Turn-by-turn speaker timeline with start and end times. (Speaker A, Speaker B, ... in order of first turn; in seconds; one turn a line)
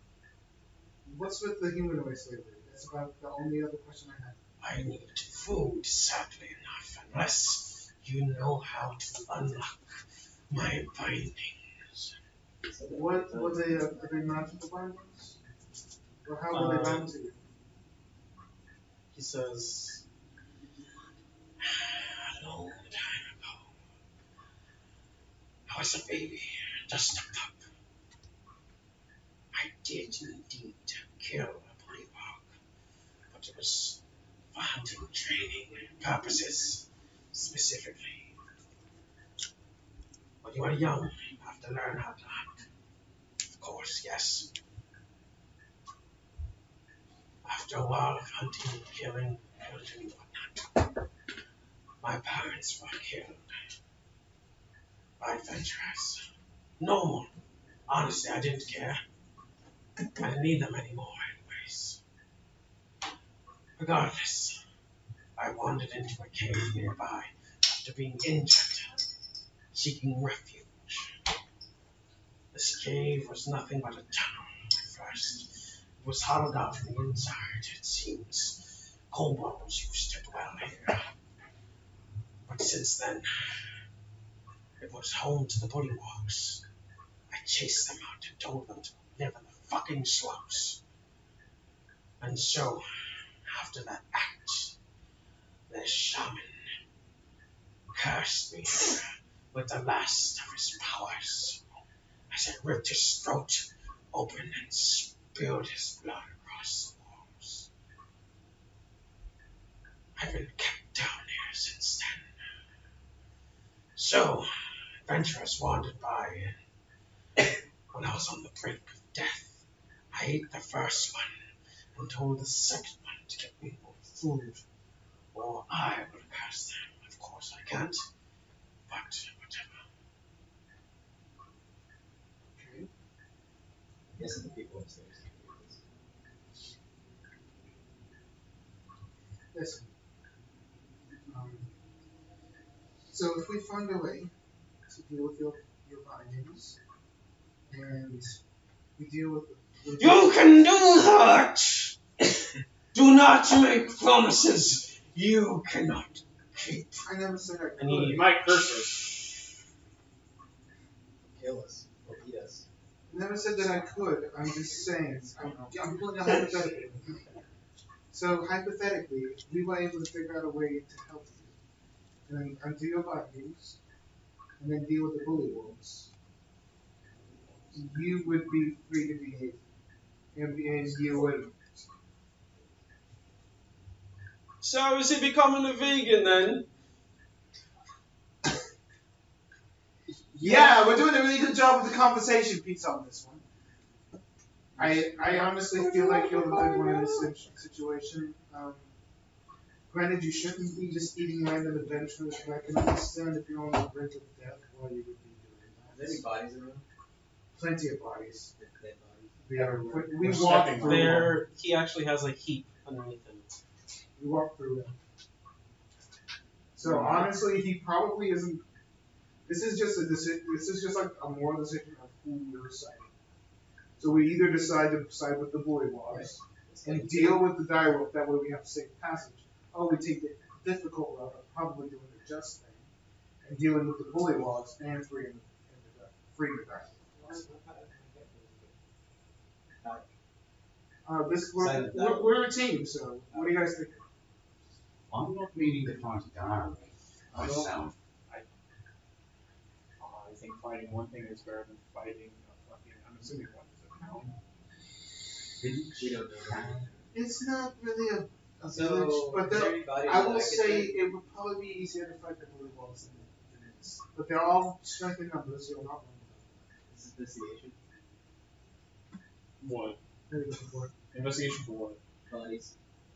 Speaker A: 1.0-4.4
Speaker B: 4.6-9.8
Speaker B: 10.5-12.1
Speaker C: 12.6-13.9
Speaker A: 12.9-15.4
Speaker A: 16.2-17.4
Speaker B: 16.5-17.1
Speaker B: 19.1-20.0
Speaker B: 21.6-23.7
Speaker B: 25.7-27.6
Speaker B: 29.5-32.5
Speaker B: 33.3-34.0
Speaker B: 34.5-38.3
Speaker B: 40.4-42.6
Speaker B: 43.6-44.5
Speaker B: 47.4-50.8
Speaker B: 52.0-53.5
Speaker B: 55.2-56.2
Speaker B: 56.8-57.3
Speaker B: 57.9-59.0
Speaker B: 60.1-62.0
Speaker B: 63.8-64.6
Speaker B: 65.4-69.0
Speaker B: 69.7-71.1
Speaker B: 72.5-75.5
Speaker B: 76.0-81.0
Speaker B: 82.5-83.6
Speaker B: 84.8-86.6
Speaker B: 87.3-90.8
Speaker B: 92.2-92.8
Speaker B: 93.5-94.7
Speaker B: 95.7-96.7
Speaker B: 97.9-101.6
Speaker B: 102.3-107.7
Speaker B: 110.2-112.3
Speaker B: 114.0-114.5
Speaker B: 115.0-116.6
Speaker B: 117.9-119.6
Speaker B: 120.1-121.3
Speaker B: 121.9-124.2
Speaker A: 124.2-124.6
Speaker B: 125.3-128.0
Speaker B: 128.9-129.8
Speaker A: 132.5-132.9
Speaker C: 134.1-135.8
Speaker A: 139.5-139.9
Speaker A: 141.3-141.7
Speaker A: 143.1-144.3
Speaker A: 144.9-146.8
Speaker A: 147.7-148.4
Speaker A: 149.0-150.7
Speaker B: 150.0-152.0
Speaker B: 152.9-157.1
Speaker A: 157.0-158.4
Speaker B: 157.8-158.7
Speaker D: 158.1-159.1
Speaker C: 161.2-162.6
Speaker A: 163.1-167.2
Speaker A: 168.1-171.6
Speaker A: 172.3-173.8
Speaker A: 174.6-176.1
Speaker A: 177.7-179.6
Speaker A: 180.3-181.5
Speaker B: 184.6-186.7
Speaker D: 190.4-190.7
Speaker A: 190.4-193.4
Speaker A: 194.8-198.9
Speaker A: 199.9-206.2
Speaker C: 205.9-206.8
Speaker A: 207.5-208.5
Speaker C: 208.6-210.4
Speaker A: 209.4-211.3
Speaker D: 210.1-211.3
Speaker B: 210.5-213.6
Speaker A: 214.2-214.9
Speaker A: 216.8-218.6
Speaker C: 216.8-217.3
Speaker A: 219.4-223.1
Speaker A: 224.0-232.9
Speaker C: 226.1-227.5
Speaker A: 233.4-237.4
Speaker C: 237.2-238.7
Speaker C: 239.8-240.1
Speaker A: 241.0-244.0
Speaker C: 241.6-242.3
Speaker C: 243.3-243.7
Speaker E: 245.1-247.9
Speaker D: 247.3-247.7
Speaker D: 250.0-254.3
Speaker E: 255.6-256.9
Speaker C: 256.0-257.0
Speaker A: 257.1-266.8
Speaker C: 258.7-261.0
Speaker C: 266.9-267.8
Speaker D: 269.6-270.0
Speaker A: 270.3-270.9
Speaker D: 271.1-272.0
Speaker C: 272.3-272.7